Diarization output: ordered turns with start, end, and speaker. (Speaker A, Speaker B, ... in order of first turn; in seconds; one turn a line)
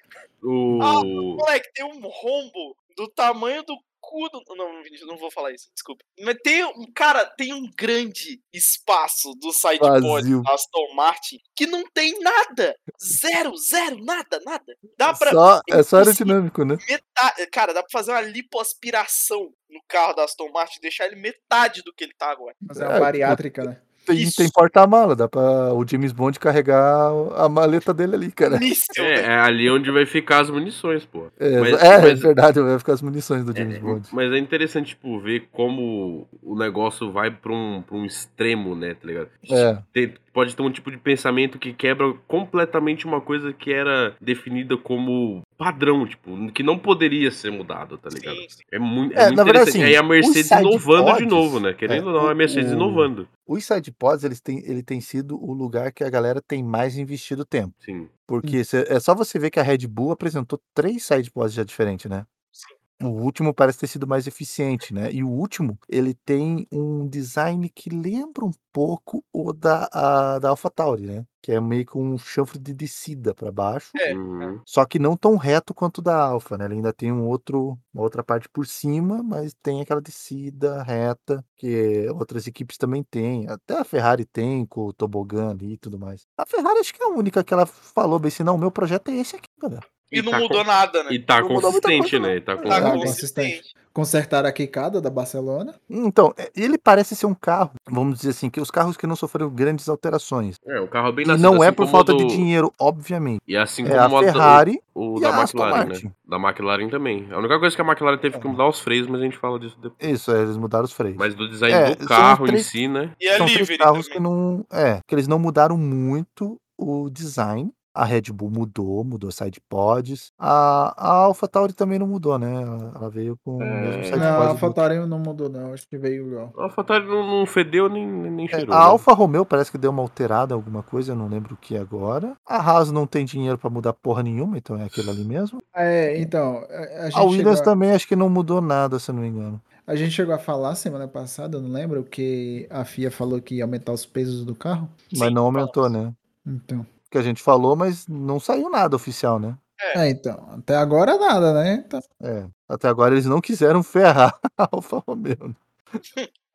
Speaker A: 0.4-1.5
Speaker B: 0.8-22.6
Speaker C: 9.8-10.5
Speaker C: 15.1-16.8
Speaker D: 22.6-23.9
Speaker C: 22.8-28.7
Speaker B: 24.1-24.5
Speaker B: 28.5-29.3
Speaker A: 29.0-32.3
Speaker C: 31.4-34.1
Speaker A: 33.5-53.3
Speaker C: 39.5-39.8
Speaker B: 48.1-48.6
Speaker C: 49.2-57.7
Speaker A: 57.8-58.1
Speaker C: 58.3-62.3
Speaker C: 63.0-74.0
Speaker B: 74.0-74.5
Speaker A: 74.1-74.6
Speaker C: 74.7-89.8
Speaker A: 90.1-93.1
Speaker B: 90.1-91.2
Speaker C: 91.4-93.2
Speaker B: 92.6-93.7
Speaker D: 92.7-95.8
Speaker C: 95.9-100.6
Speaker A: 100.7-102.5
Speaker C: 101.2-106.1
Speaker A: 103.5-110.0
Speaker C: 108.3-108.6
Speaker C: 110.0-112.7
Speaker A: 111.2-113.2
Speaker B: 113.2-114.2
Speaker C: 113.3-124.8
Speaker A: 123.6-124.5
Speaker D: 124.1-126.5
Speaker A: 126.6-129.0
Speaker C: 128.5-135.6
Speaker D: 135.7-137.7
Speaker C: 137.1-139.6
Speaker D: 139.8-145.0
Speaker B: 145.1-145.9
Speaker C: 145.1-146.2
Speaker D: 146.4-146.9
Speaker C: 147.1-149.6
Speaker D: 149.9-152.0
Speaker C: 152.2-155.6